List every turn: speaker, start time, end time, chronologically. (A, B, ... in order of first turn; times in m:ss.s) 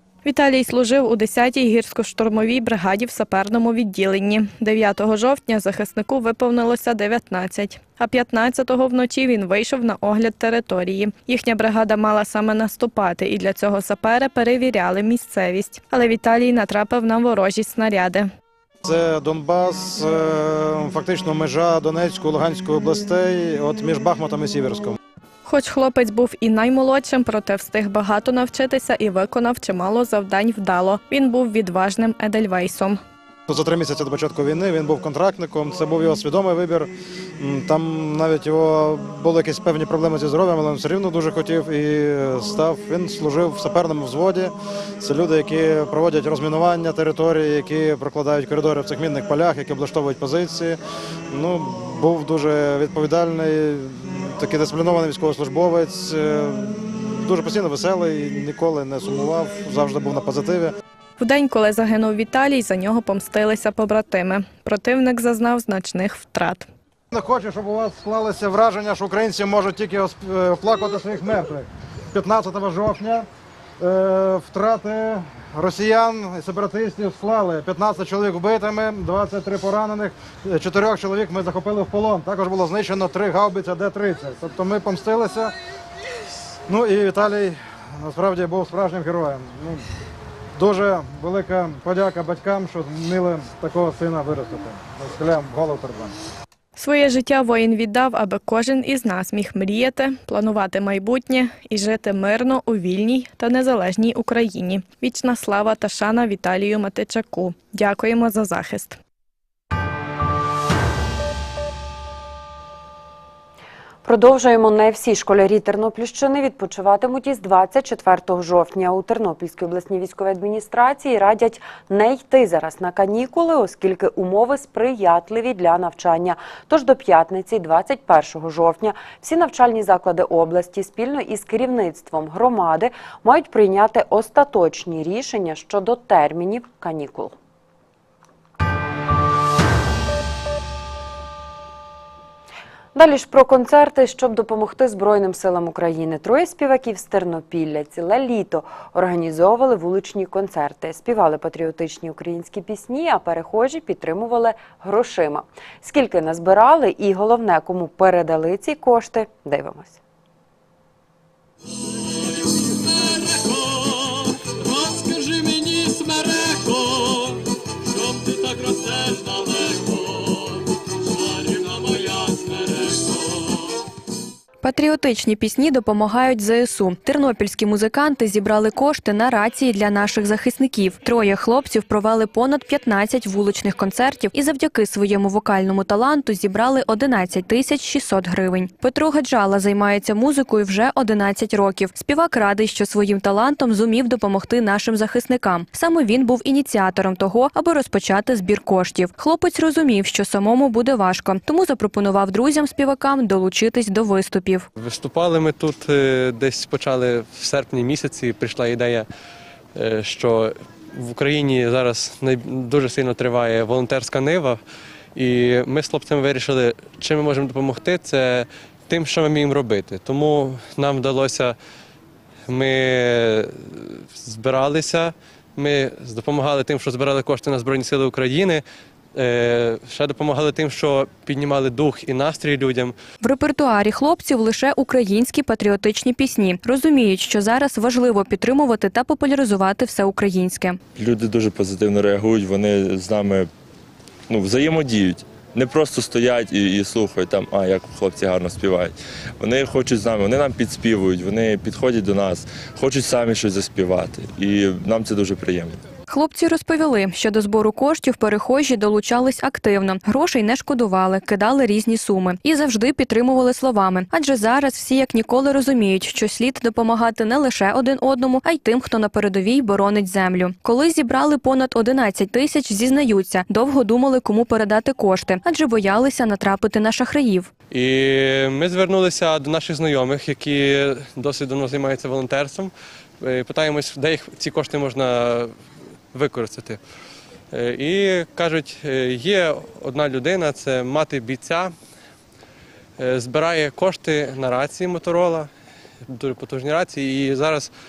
0:00.2-0:18.3 A
0:18.8-0:25.0 B
0:25.4-0:33.0 A
0:33.5-0:50.8 B
0:51.3-1:00.7 B
1:01.2-1:06.7 A
1:07.1-1:13.3 B
1:13.8-1:25.5 B
1:26.7-1:29.8 B
1:30.6-1:36.1 B
1:36.8-1:49.0 A
1:54.0-2:17.3 C
2:23.0-2:40.0 C
2:54.6-3:24.7 D
3:24.8-3:29.1 E
3:29.8-3:34.6 E
3:35.2-3:41.6 E
3:42.5-3:53.0 E
3:53.2-4:00.8 D
4:01.0-4:03.5 F
4:04.3-4:15.8 F
4:16.1-4:37.5 D
4:37.7-4:45.6 E
4:46.1-4:46.8 E
4:47.5-4:51.7 E
4:53.0-4:55.5 E
4:56.0-4:57.7 E